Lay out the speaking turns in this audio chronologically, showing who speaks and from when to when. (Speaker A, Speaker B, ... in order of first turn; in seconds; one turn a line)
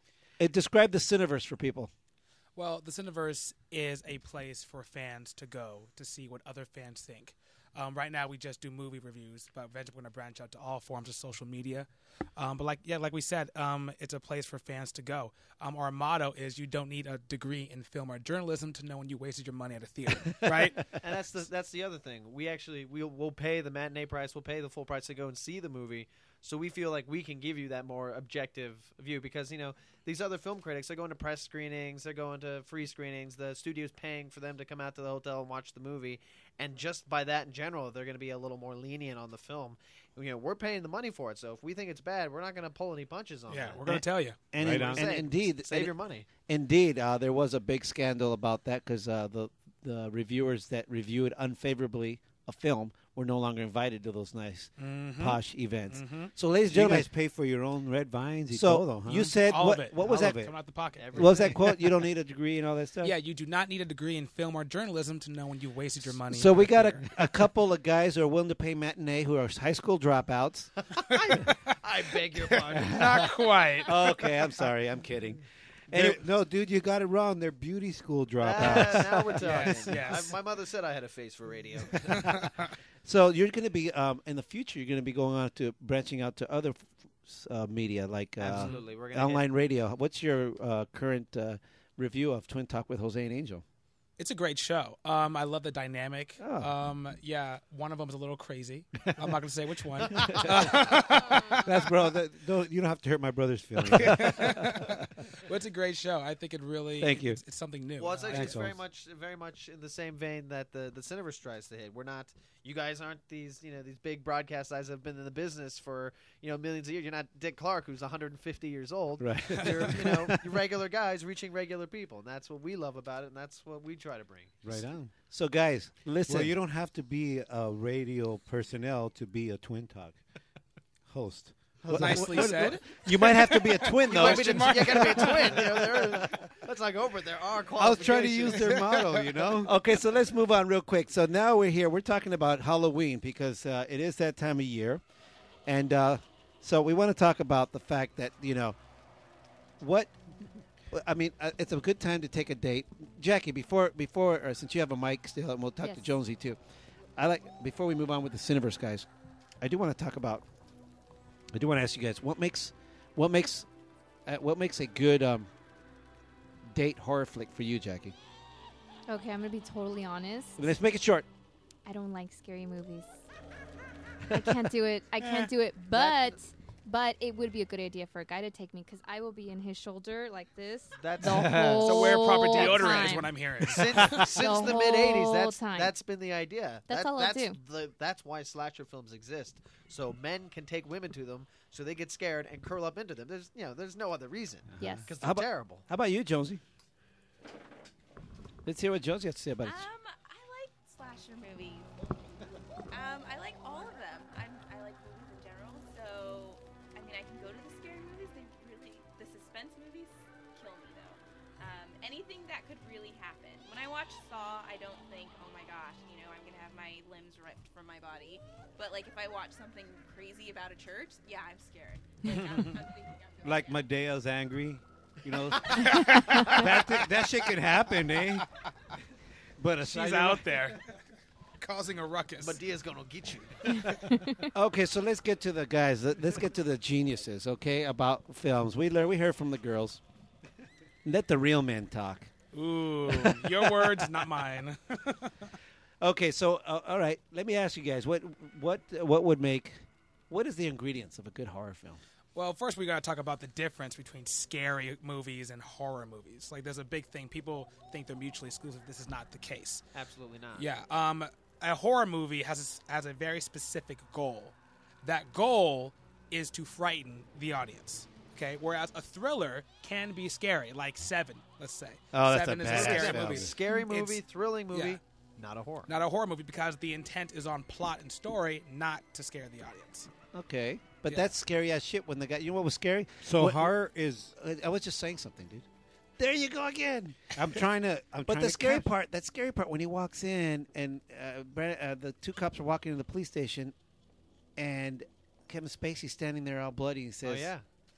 Speaker A: 0.4-1.9
Speaker B: 2.5-20.8
Speaker C: 20.9-43.8
Speaker B: 43.5-44.4
Speaker A: 43.9-57.1
Speaker D: 44.6-45.2
Speaker C: 44.6-46.3
Speaker B: 54.8-56.3
Speaker D: 56.7-59.4
Speaker A: 58.5-60.5
Speaker B: 59.4-61.6
Speaker C: 61.0-61.7
Speaker A: 61.1-63.1
Speaker B: 63.0-67.0
Speaker A: 66.2-70.7
Speaker C: 71.1-73.4
Speaker B: 71.1-71.4
Speaker B: 72.3-73.9
Speaker A: 73.8-76.5
Speaker D: 74.1-74.5
Speaker D: 75.9-79.3
Speaker C: 78.4-82.0
Speaker A: 78.5-80.1
Speaker B: 79.4-80.3
Speaker B: 82.1-82.7
Speaker A: 83.0-93.6
Speaker C: 88.4-89.4
Speaker B: 94.2-101.7
Speaker A: 96.4-96.7
Speaker A: 100.3-104.9
Speaker D: 103.3-104.1
Speaker B: 103.8-108.5
Speaker A: 107.0-107.4
Speaker C: 108.0-124.8
Speaker D: 108.3-108.7
Speaker A: 108.3-108.7
Speaker A: 119.2-120.6
Speaker D: 124.6-125.1
Speaker A: 125.2-126.5
Speaker D: 126.3-130.2
Speaker D: 131.1-133.3
Speaker A: 131.9-135.8
Speaker B: 131.9-135.6
Speaker C: 134.1-138.7
Speaker D: 135.7-136.1
Speaker D: 137.8-139.7
Speaker B: 138.5-139.4
Speaker A: 139.6-145.0
Speaker A: 145.7-148.8
Speaker A: 149.8-150.1
Speaker A: 150.9-156.6
Speaker E: 155.8-156.1
Speaker A: 157.2-159.1
Speaker A: 159.6-160.4
Speaker A: 161.5-163.7
Speaker A: 164.2-165.5
Speaker A: 166.7-168.1
Speaker E: 169.1-170.6
Speaker A: 170.6-171.3
Speaker E: 171.8-173.2
Speaker E: 174.3-183.3
Speaker C: 175.9-176.4
Speaker C: 181.0-195.8
Speaker B: 181.7-184.3
Speaker E: 184.1-185.9
Speaker E: 186.9-187.6
Speaker E: 194.8-195.1
Speaker A: 195.2-196.6
Speaker A: 198.6-199.9
Speaker F: 199.6-201.9
Speaker F: 202.9-223.8
Speaker D: 223.4-225.9
Speaker B: 225.7-226.7
Speaker D: 226.5-228.4
Speaker D: 229.6-230.0
Speaker B: 229.8-230.8
Speaker A: 229.9-230.4
Speaker B: 231.6-232.6
Speaker C: 232.4-233.9
Speaker A: 234.5-240.0
Speaker A: 241.0-242.3
Speaker B: 242.5-245.4
Speaker A: 243.1-244.1
Speaker A: 246.0-252.0
Speaker B: 252.3-259.8
Speaker C: 259.9-260.7
Speaker B: 260.5-275.0
Speaker A: 272.1-273.5
Speaker D: 272.2-273.5
Speaker C: 272.7-275.9
Speaker B: 275.9-280.1
Speaker A: 280.3-283.8
Speaker B: 281.0-281.3
Speaker D: 283.2-284.3
Speaker A: 284.3-285.6
Speaker A: 286.2-293.7
Speaker D: 287.4-288.8
Speaker A: 294.6-297.5
Speaker C: 297.2-297.6